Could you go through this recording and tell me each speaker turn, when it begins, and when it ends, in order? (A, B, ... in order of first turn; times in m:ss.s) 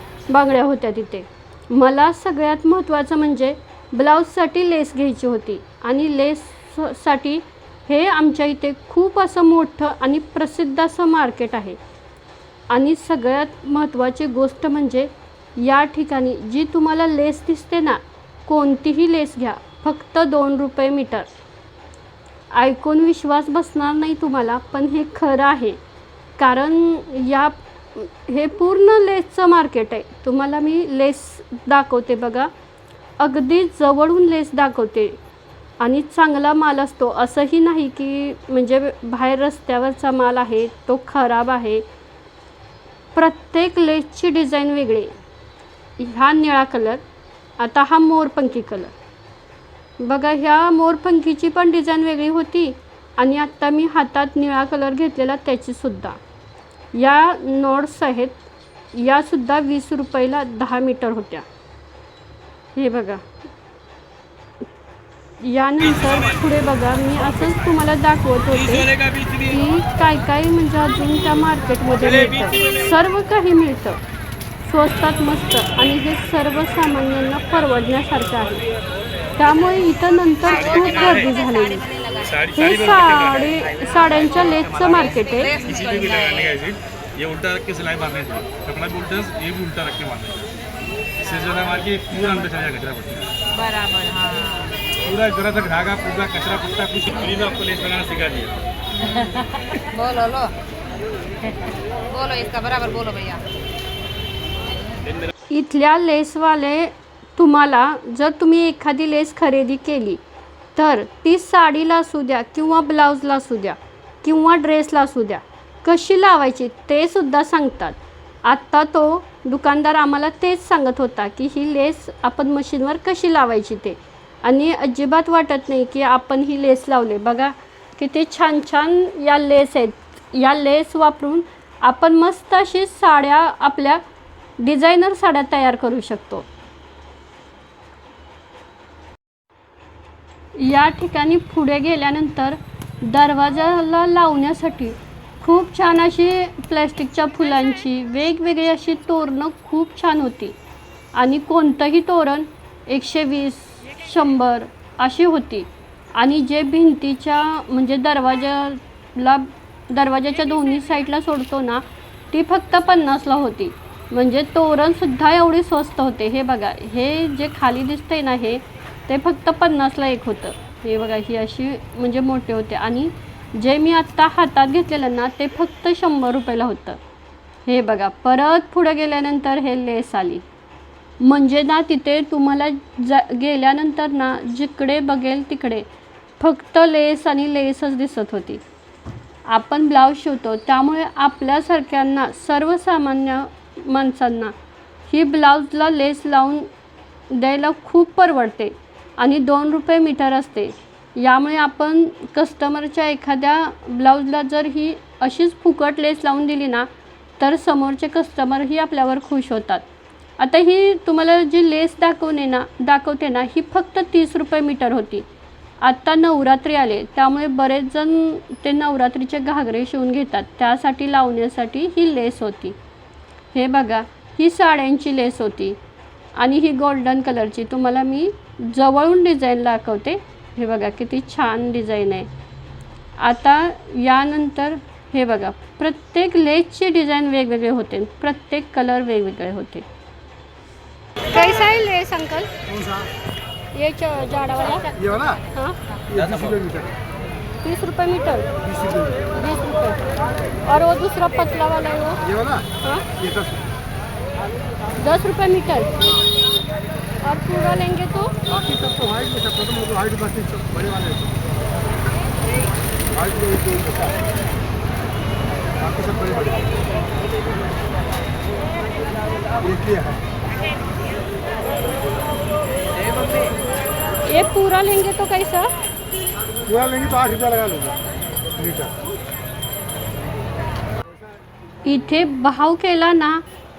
0:00.3-0:11.8 A
0:12.7-0:21.3 A
0:22.5-0:25.8 A
0:26.4-0:32.5 A
0:33.2-0:35.2 A
0:35.8-0:41.8 A
0:43.1-0:45.1 A
0:46.0-0:47.0 A
0:47.6-0:48.9 A
0:50.0-0:56.2 A
0:56.9-1:01.4 A
1:02.7-1:03.2 A
1:05.4-1:14.0 A
1:14.6-1:18.6 A
1:19.4-1:21.9 A
1:21.8-1:22.3 B
1:22.3-1:23.5 C
1:22.5-1:25.6 A
1:25.5-1:30.6 C
1:25.5-1:26.5 B
1:31.2-1:33.3 C
1:33.5-1:34.7 B
1:34.9-1:38.5 C
1:39.0-1:39.4 B
1:39.9-1:40.5 B
1:41.7-1:43.4 B
1:45.5-1:50.2 A
1:50.7-2:14.0 A
2:14.6-2:16.5 A
2:20.5-2:30.6 A
2:31.1-2:57.0 A
2:57.6-3:00.4 A
3:01.2-3:05.8 A
3:06.4-3:08.6 A
3:09.5-3:14.5 A
3:15.1-3:16.7 A
3:17.3-3:29.8 A
3:30.4-3:35.3 A
3:35.8-3:42.8 A
3:43.5-3:45.8 A
3:46.3-3:52.3 A
3:53.2-3:59.8 A
4:01.2-4:02.5 A
4:02.7-4:03.1 D
4:03.7-4:05.8 A
4:04.9-4:05.4 D
4:06.1-4:06.9 D
4:06.1-4:06.6 C
4:07.6-4:08.5 A
4:08.7-4:09.2 D
4:09.3-4:10.1 A
4:10.6-4:12.2 A
4:12.3-4:12.7 D
4:12.8-4:13.1 A
4:13.2-4:13.6 D
4:15.0-4:16.0 A
4:17.2-4:18.4 A
4:18.5-4:21.3 D
4:23.1-4:24.2 D
4:25.8-4:26.7 D
4:29.6-4:30.2 D
4:34.2-4:35.7 A
4:36.6-4:38.0 D
4:38.6-4:38.9 D
4:41.8-4:43.4 A